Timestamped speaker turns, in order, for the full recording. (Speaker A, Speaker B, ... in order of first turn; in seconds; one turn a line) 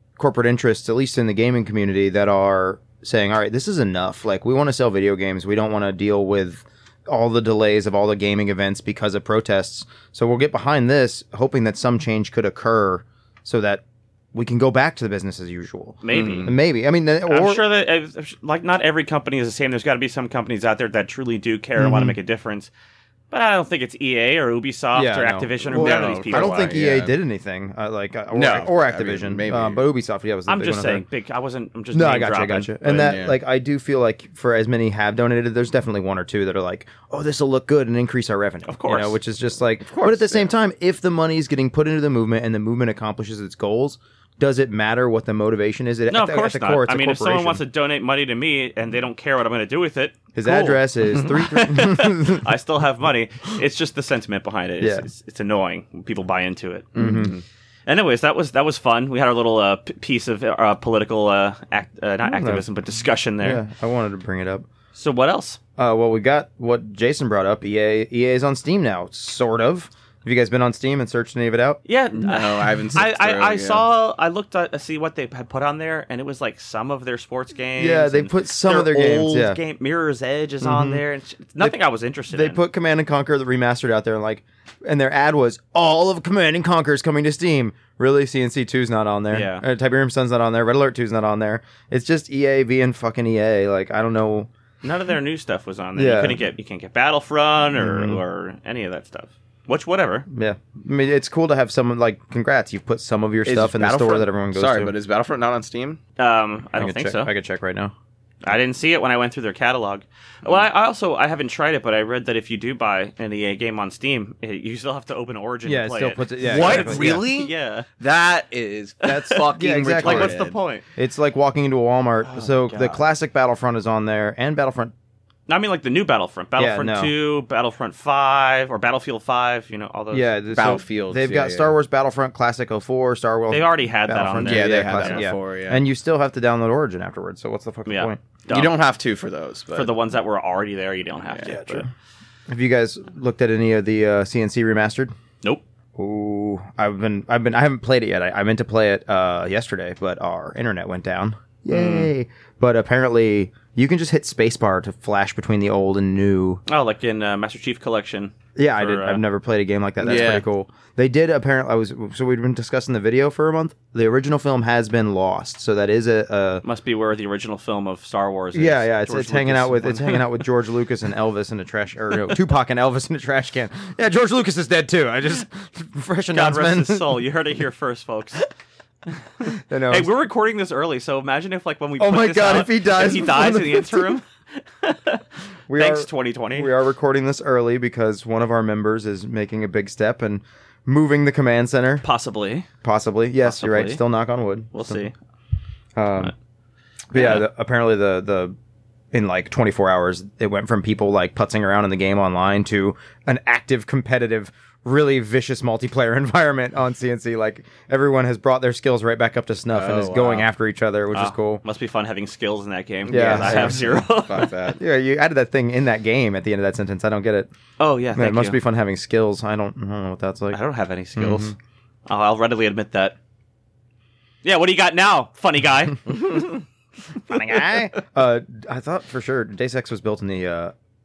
Speaker A: 0.2-13.8
Speaker A: 14.3-17.7
Speaker B: 16.0-16.5
Speaker C: 16.1-16.6
Speaker B: 17.2-22.7
Speaker A: 21.8-22.2
Speaker B: 23.3-26.8
Speaker A: 24.9-31.1
Speaker C: 25.7-27.1
Speaker C: 28.3-29.9
Speaker B: 30.5-33.1
Speaker A: 31.9-47.6
Speaker C: 32.9-33.4
Speaker B: 38.7-39.2
Speaker C: 39.9-40.5
Speaker B: 46.1-57.2
Speaker A: 50.4-52.5
Speaker A: 54.8-55.1
Speaker A: 57.0-57.4
Speaker C: 57.0-57.4
Speaker B: 57.9-63.6
Speaker A: 62.2-62.6
Speaker A: 63.4-64.7
Speaker B: 64.9-65.6
Speaker A: 65.8-71.8
Speaker B: 71.8-82.6
Speaker C: 72.2-73.8
Speaker A: 77.8-79.6
Speaker A: 80.6-81.0
Speaker A: 82.3-94.5
Speaker B: 89.3-89.7
Speaker B: 94.8-100.3
Speaker A: 96.0-96.4
Speaker A: 97.8-98.2
Speaker A: 100.3-105.0
Speaker C: 103.5-106.0
Speaker B: 106.2-107.3
Speaker A: 106.8-107.9
Speaker B: 108.4-117.9
Speaker A: 115.7-117.3
Speaker C: 116.4-120.6
Speaker A: 119.0-120.4
Speaker B: 119.1-119.5
Speaker B: 120.0-120.8
Speaker A: 121.0-124.9
Speaker B: 122.2-123.0
Speaker B: 125.5-130.4
Speaker A: 126.6-127.1
Speaker A: 130.1-138.2
Speaker C: 130.5-131.8
Speaker B: 133.5-135.2
Speaker C: 134.4-135.8
Speaker B: 137.9-138.7
Speaker C: 138.5-139.9
Speaker B: 139.7-141.9
Speaker C: 141.3-141.6
Speaker A: 141.5-141.9
Speaker A: 142.5-145.1
Speaker A: 146.0-156.6
Speaker B: 151.7-152.1
Speaker B: 156.7-159.2
Speaker A: 158.6-166.6
Speaker C: 160.0-160.5
Speaker B: 166.6-170.5
Speaker A: 168.5-177.3
Speaker B: 176.3-178.4
Speaker A: 179.4-180.1
Speaker B: 179.4-186.7
Speaker A: 182.0-184.2
Speaker A: 185.7-192.1
Speaker B: 192.0-192.7
Speaker A: 192.8-195.0
Speaker B: 193.4-194.0
Speaker B: 194.7-195.1
Speaker A: 195.9-196.3
Speaker A: 197.1-198.6
Speaker B: 197.1-197.4
Speaker A: 199.1-211.6
Speaker C: 209.7-210.5
Speaker B: 211.1-214.5
Speaker C: 213.1-214.8
Speaker A: 213.1-214.0
Speaker A: 214.8-217.5
Speaker B: 217.8-218.6
Speaker A: 218.1-220.6
Speaker B: 220.5-221.5
Speaker A: 221.2-221.6
Speaker B: 222.1-223.2
Speaker B: 224.4-226.5
Speaker A: 227.3-230.7